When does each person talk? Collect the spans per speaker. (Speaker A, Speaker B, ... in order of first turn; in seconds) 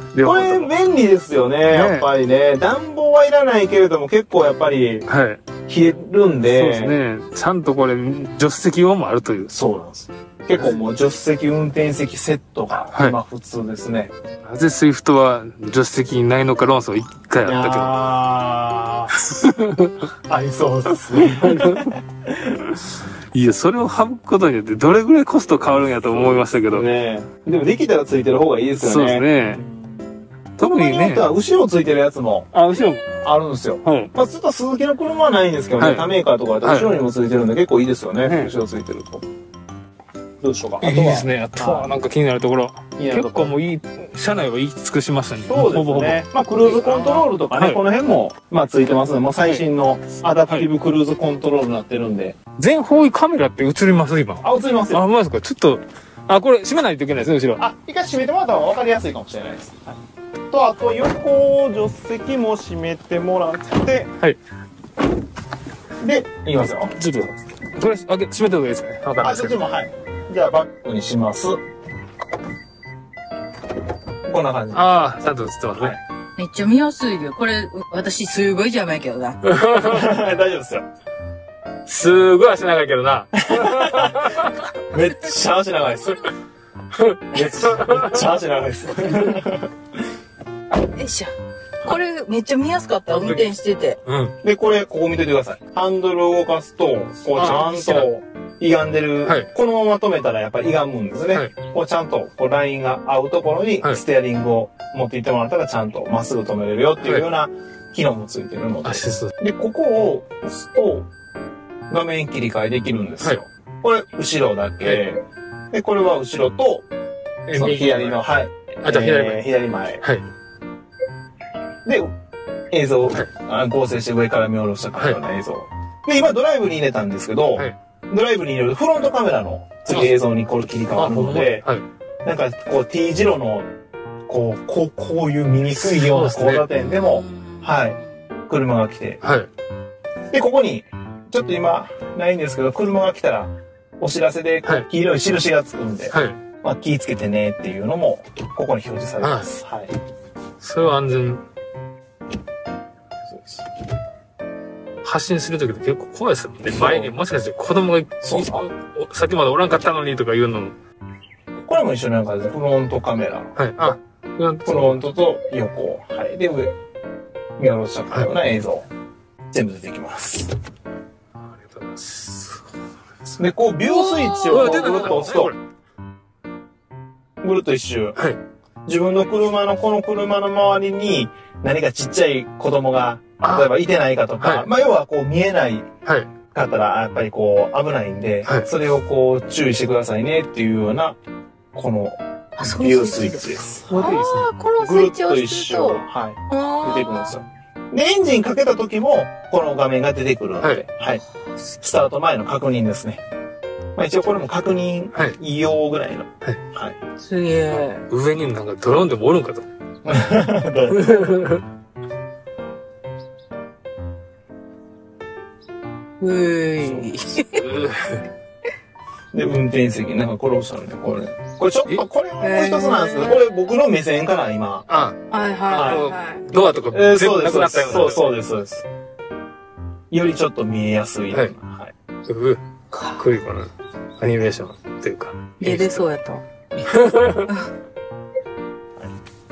Speaker A: 0.1-0.7, 1.7-2.1, 5.1-5.4, 6.5-9.6, 12.9-13.2, 14.4-18.0, 19.1-20.1, 21.3-21.9, 22.7-26.9, 28.8-29.6, 30.6-31.3, 32.5-33.1, 33.8-34.1, 35.8-36.9, 38.2-38.5, 40.8-47.8, 52.6-57.6, 67.0-69.6, 74.7-76.0, 79.4-80.1, 81.8-84.7, 86.9-88.2, 93.1-93.5, 94.0-94.3, 97.3-98.1, 108.8-109.3, 117.5-118.2, 118.8-119.4, 130.9-131.8, 135.8-136.7, 139.2-139.5, 146.1-146.4, 149.2-149.5, 150.6-151.4, 155.0-160.7, 163.6-165.0, 171.4-172.7, 174.5-175.6, 183.4-183.7, 184.4-184.7, 193.9-194.5, 208.1-209.6, 210.9-211.6, 217.5-218.3, 224.9-225.2, 225.7-228.4, 232.3-236.0, 236.9-237.5
Speaker B: 0.2-5.0, 5.7-7.0, 9.5-14.1, 17.4-19.1, 20.3-22.6, 25.6-32.5, 33.2-39.2, 40.4-41.9, 43.0-43.5, 45.4-52.4, 54.4-55.0, 57.6-60.0, 60.5-64.1, 66.0-67.0, 69.2-71.6, 74.2-75.1, 79.8-80.8, 83.3-84.3, 84.9-86.2, 87.3-89.7, 94.4-111.1, 111.9-116.9, 117.5-120.0, 121.8-122.1, 122.7-131.6, 132.2-133.7, 134.3-138.0, 138.5-139.2, 140.3-149.9, 153.3-153.6, 156.7-157.1, 158.2-158.6, 161.6-163.5, 164.6-166.7, 167.6-168.9, 169.5-170.5, 173.4-175.5, 177.4-178.2, 178.8-185.9, 186.5-191.2, 191.7-194.2, 194.8-201.2, 201.8-203.2, 203.9-206.9, 210.0-211.1, 216.8-217.1, 219.3-224.9, 225.7-228.8, 230.1-231.9
Speaker C: 76.4-79.4, 90.8-91.3, 91.8-94.0, 136.9-137.9, 173.8-175.2, 192.6-197.3, 207.2-208.0, 216.2-217.6, 222.4-223.4, 225.3-226.5, 235.6-236.4